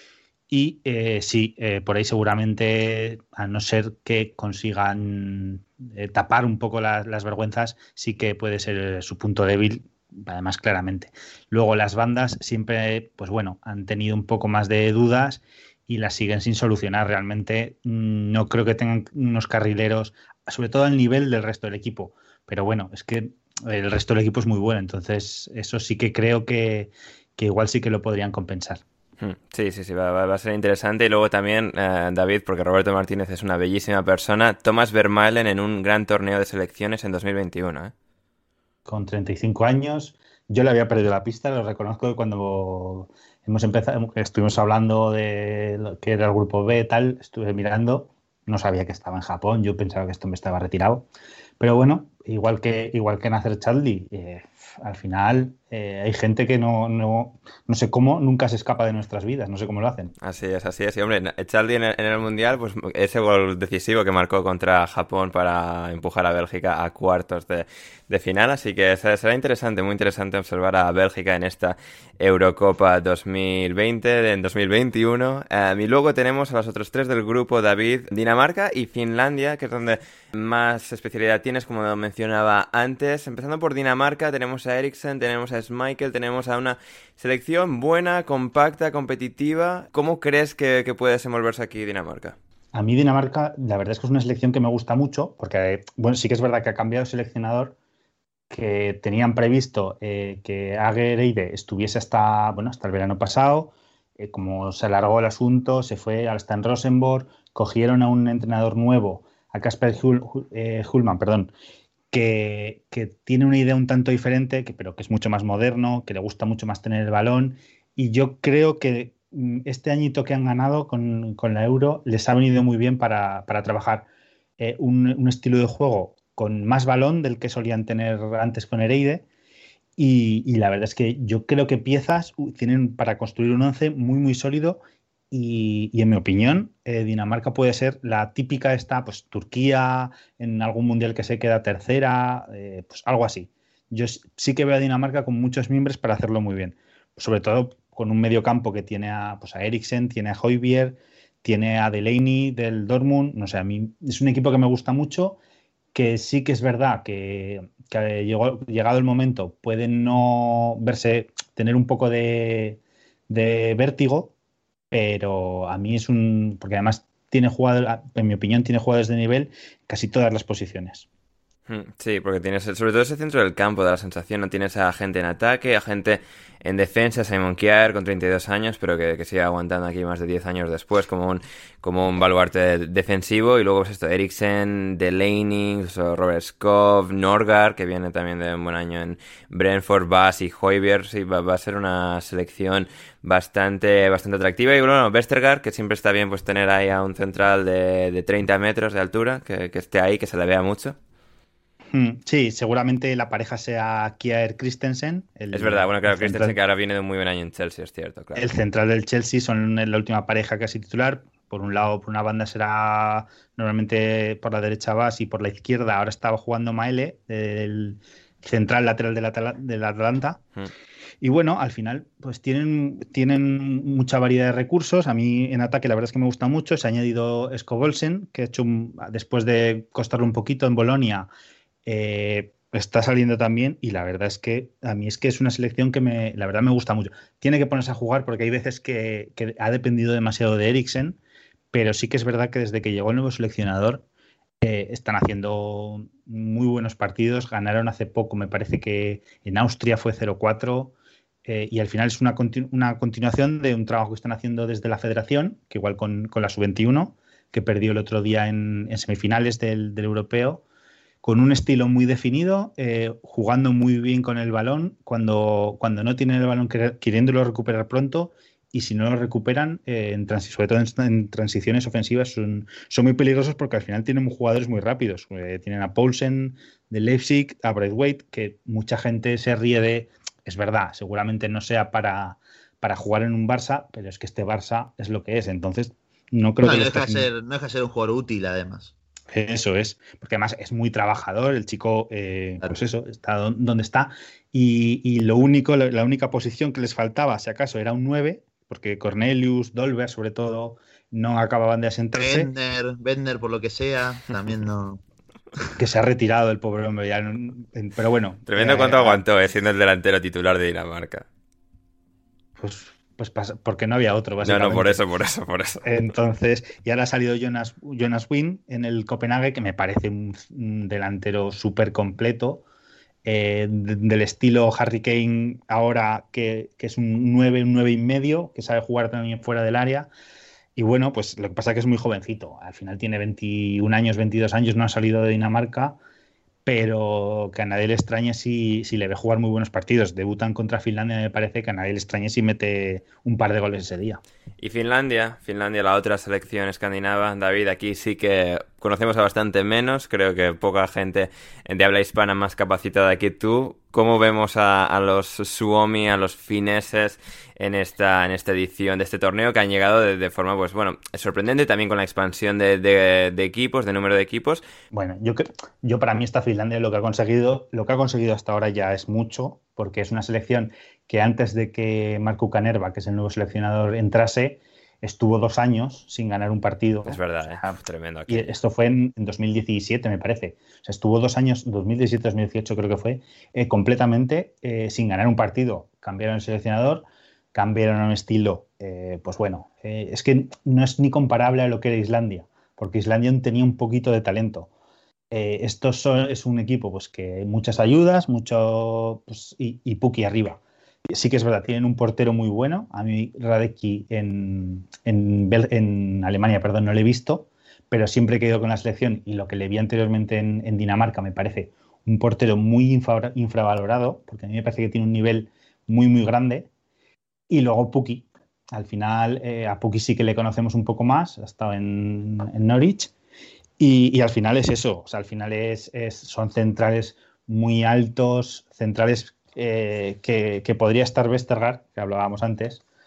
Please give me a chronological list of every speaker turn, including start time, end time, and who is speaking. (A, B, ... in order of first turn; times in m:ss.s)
0:00.5-0:28.8 A
0:29.2-0:37.9 B
0:38.9-0:51.0 A
0:51.6-1:00.1 A
1:00.2-1:32.4 B
1:32.7-1:37.7 A
1:38.5-1:51.5 A
1:52.1-2:04.1 A
2:04.6-2:09.2 A
2:10.0-2:14.8 A
2:15.3-2:35.4 A
2:35.9-2:44.3 A
2:44.9-2:51.0 A
2:51.7-3:21.0 B
3:21.9-3:26.5 A
3:25.5-3:28.5 B
3:28.4-3:40.4 A
3:41.2-3:51.3 A
3:51.8-4:01.2 A
4:01.7-4:04.0 A
4:04.6-4:10.9 A
4:11.4-4:20.6 A
4:21.2-4:47.3 A
4:46.6-4:48.9 C
4:49.3-5:02.5 A
5:02.1-5:05.0 C
5:05.8-5:09.2 A
5:08.5-5:11.2 B
5:12.6-5:15.0 A
5:14.4-5:15.8 B
5:15.8-5:22.6 A
5:23.2-5:30.1 A
5:30.8-5:36.0 A
5:36.6-5:44.2 A
5:44.6-6:04.6 B
6:04.9-6:17.8 A
6:17.0-6:18.5 B
6:18.3-6:34.7 A
6:35.3-6:40.6 A
6:41.1-6:56.7 A
6:57.5-7:03.1 A
7:03.8-7:12.8 A